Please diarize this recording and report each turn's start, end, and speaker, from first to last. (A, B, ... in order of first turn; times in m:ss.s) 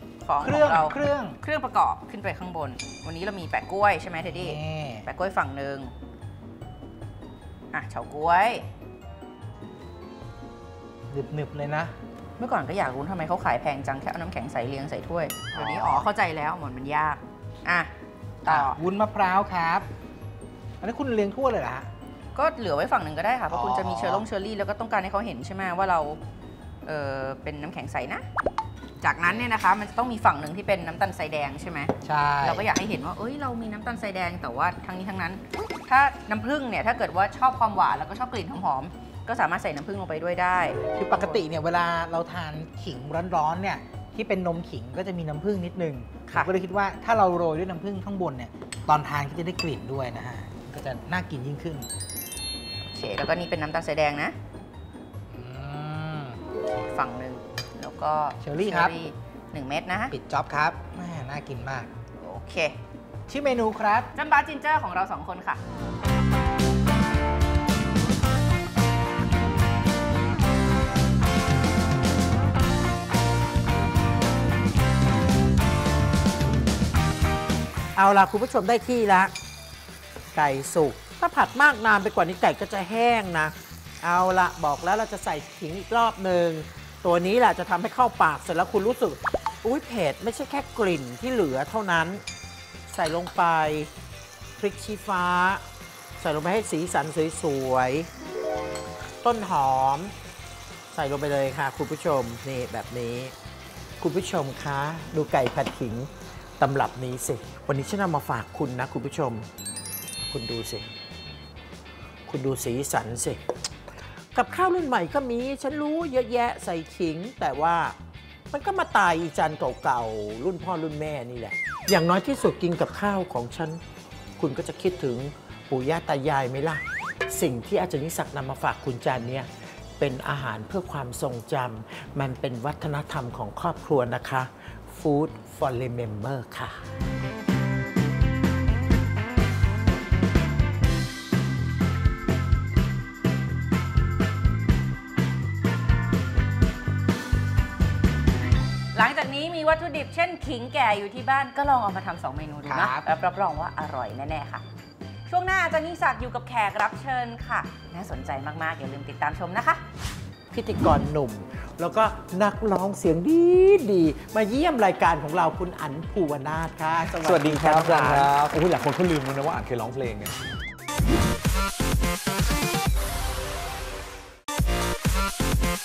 0:00.2-0:05.9 A
0:00.4-0:01.4 B
0:04.2-0:05.1 B
0:07.7-0:08.7 A
0:11.1-0:11.9 B
0:12.4-0:17.9 A
0:15.5-0:16.1 B
0:18.4-0:18.8 A
0:18.5-0:19.9 B
0:20.8-0:21.9 B
0:22.4-0:26.2 A
0:23.5-0:24.2 B
0:26.9-0:28.2 A
0:29.0-0:41.4 A
0:32.0-0:32.7 B
0:40.8-0:51.9 B
0:52.8-0:54.4 A
0:55.3-0:56.4 B
0:56.9-1:00.1 A
0:58.4-0:59.0 B
1:00.1-1:01.9 B
1:02.2-1:02.8 A
1:03.3-1:04.1 B
1:04.2-1:05.6 A
1:18.0-1:19.3 C
1:20.3-1:32.2 C
1:32.9-1:33.9 C
1:34.6-1:35.6 C
1:36.2-1:38.1 C
1:39.2-1:40.1 C
1:40.9-1:43.3 C
1:44.0-1:49.5 C
1:50.2-1:50.9 C
1:52.3-1:53.4 C
1:54.3-1:58.0 C
1:58.5-2:03.8 C
2:04.4-2:09.5 C
2:10.0-2:16.8 C
2:28.9-2:34.6 A
2:32.6-2:33.0 B
2:35.3-2:39.8 A
2:40.5-2:48.3 C
2:47.2-2:50.3 D